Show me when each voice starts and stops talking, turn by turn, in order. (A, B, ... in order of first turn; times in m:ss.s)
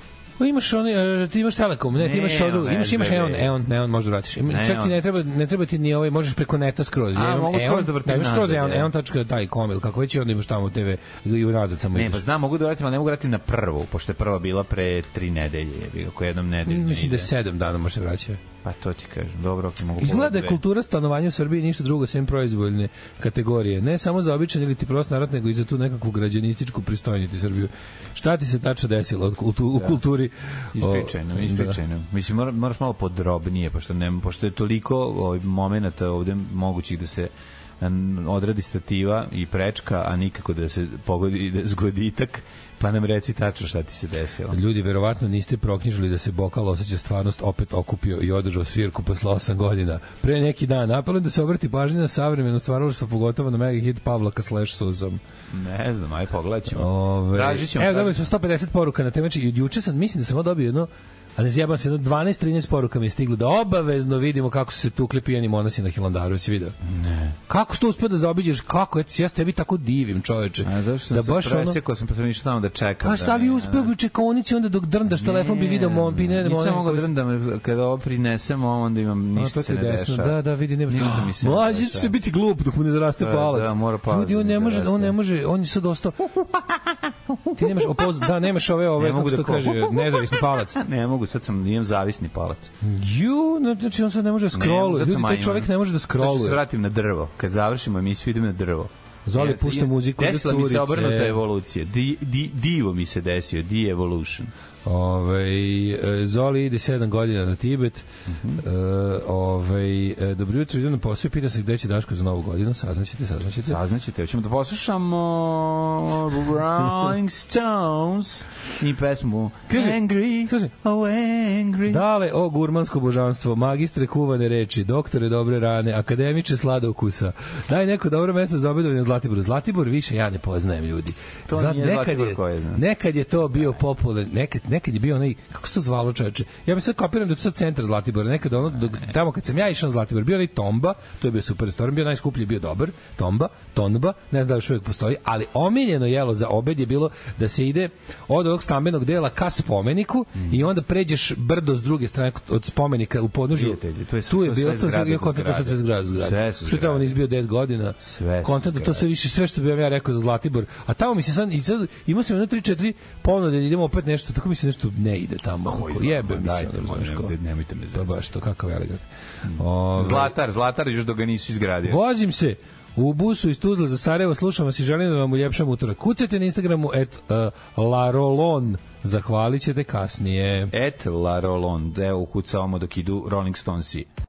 0:00.4-0:12.2 A
0:01.9-0:03.5 B
0:04.4-0:05.0 B
0:07.1-0:08.9 B
0:11.9-0:17.3 B
0:16.7-0:18.4 A
0:18.6-0:20.6 B
0:20.0-0:31.8 A
0:29.7-0:30.0 B
0:30.7-0:44.6 B
0:44.5-0:55.2 A
0:55.5-0:58.3 B
0:56.7-1:06.7 A
1:06.8-1:07.4 B
1:07.5-1:11.8 A
1:10.6-1:13.9 B
1:13.0-1:17.1 A
1:15.1-1:22.1 B
1:19.3-1:26.3 A
1:23.2-1:25.2 B
1:26.7-1:28.3 B
1:27.5-1:30.8 A
1:29.0-1:32.7 B
1:32.8-1:36.6 A
1:34.5-1:44.5 B
1:39.2-1:41.4 A
1:44.8-1:48.0 A
1:48.2-1:48.6 B
1:48.6-1:53.8 A
1:53.6-2:02.0 B
1:59.7-2:00.7 A
2:01.9-2:47.3 A
2:11.5-2:12.8 B
2:33.5-2:37.1 B
2:38.0-2:39.0 B
2:45.6-2:48.2 B
2:47.9-2:50.3 A
2:49.4-2:52.0 B
2:51.9-3:00.7 A
3:00.7-3:04.1 B